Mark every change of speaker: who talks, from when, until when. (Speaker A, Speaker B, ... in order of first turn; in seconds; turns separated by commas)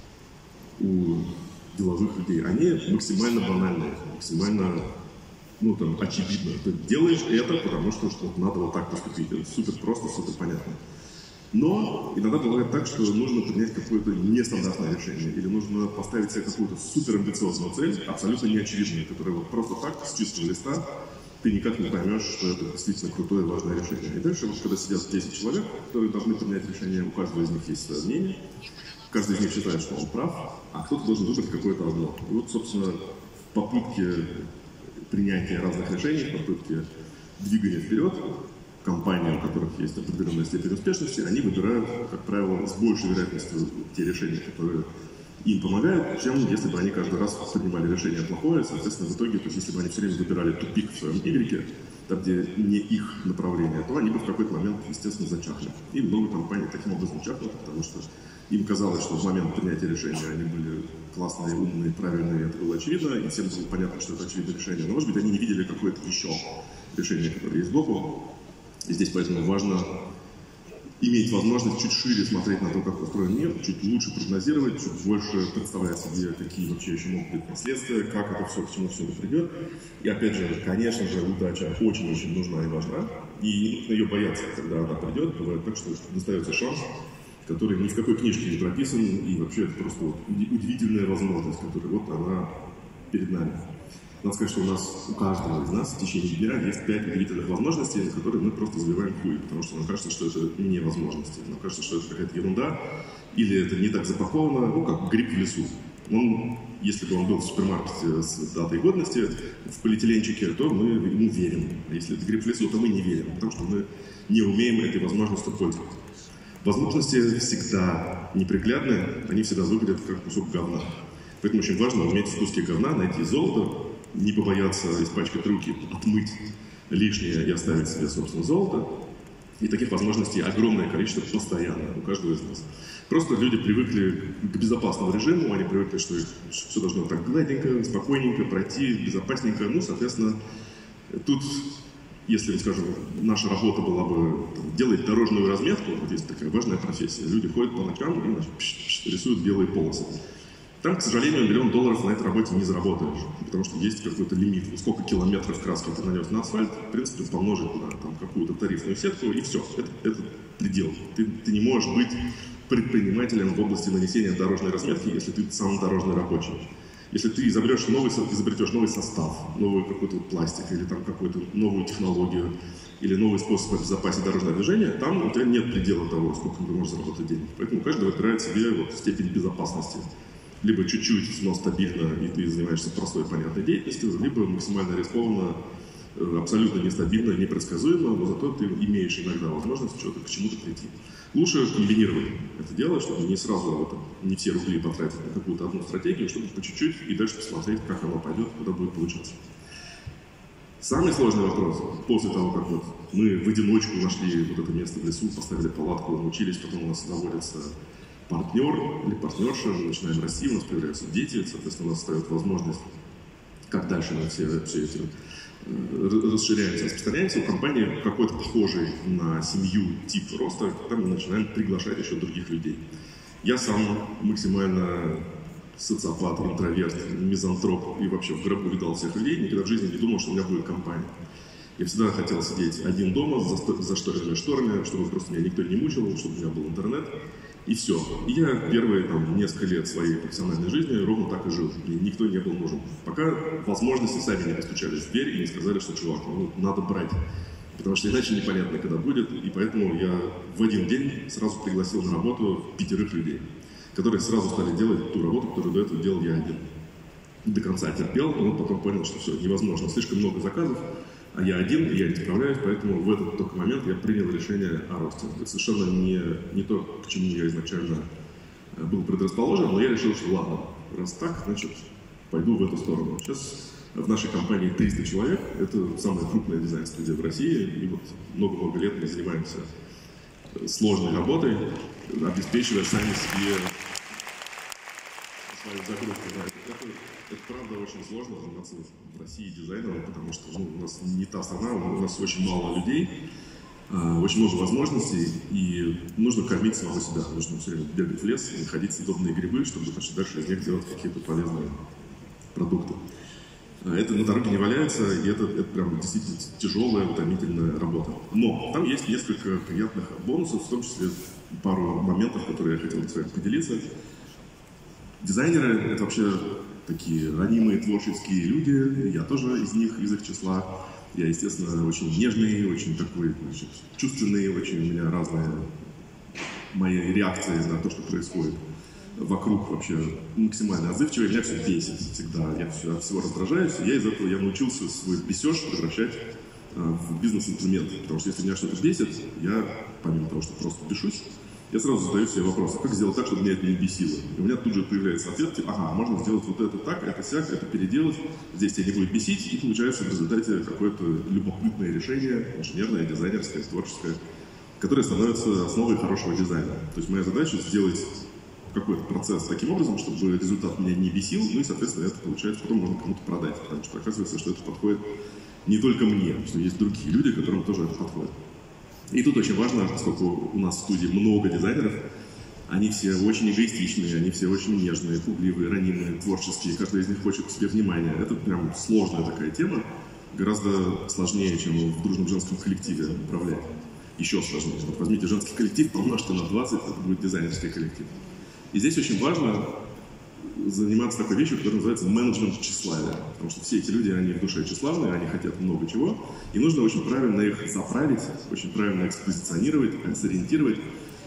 Speaker A: 0.8-4.9, Speaker A: 5.6-10.8, Speaker A: 11.5-20.8, Speaker A: 21.4-28.4, Speaker A: 29.1-33.0, Speaker A: 33.5-34.5, Speaker A: 35.1-36.9, Speaker A: 37.4-38.2, Speaker A: 38.8-44.9, Speaker A: 45.4-68.2, Speaker A: 68.9-69.9, Speaker A: 71.0-86.9, Speaker A: 87.5-92.5, Speaker A: 93.1-93.7, Speaker A: 94.2-102.8, Speaker A: 103.3-116.0, Speaker A: 116.6-128.9, Speaker A: 129.6-140.4, Speaker A: 141.1-141.7, Speaker A: 142.2-150.2, Speaker A: 150.8-180.1, Speaker A: 180.6-185.6, Speaker A: 186.2-199.4, Speaker A: 200.8-207.7, Speaker A: 208.3-212.9, Speaker A: 213.7-215.1, Speaker A: 215.6-222.8, Speaker A: 223.4-231.1, Speaker A: 231.8-237.1, Speaker A: 237.7-247.2, Speaker A: 247.7-256.7, Speaker A: 257.4-268.1, Speaker A: 268.7-279.7, Speaker A: 280.6-283.8, Speaker A: 285.5-293.1, Speaker A: 293.9-301.8, Speaker A: 302.5-303.0, Speaker A: 303.8-313.9, Speaker A: 315.2-325.7, Speaker A: 326.7-328.6, Speaker A: 329.1-354.2, Speaker A: 354.8-365.0, Speaker A: 365.6-368.3, Speaker A: 369.1-372.0, Speaker A: 372.7-388.1, Speaker A: 388.7-389.7, Speaker A: 390.4-400.8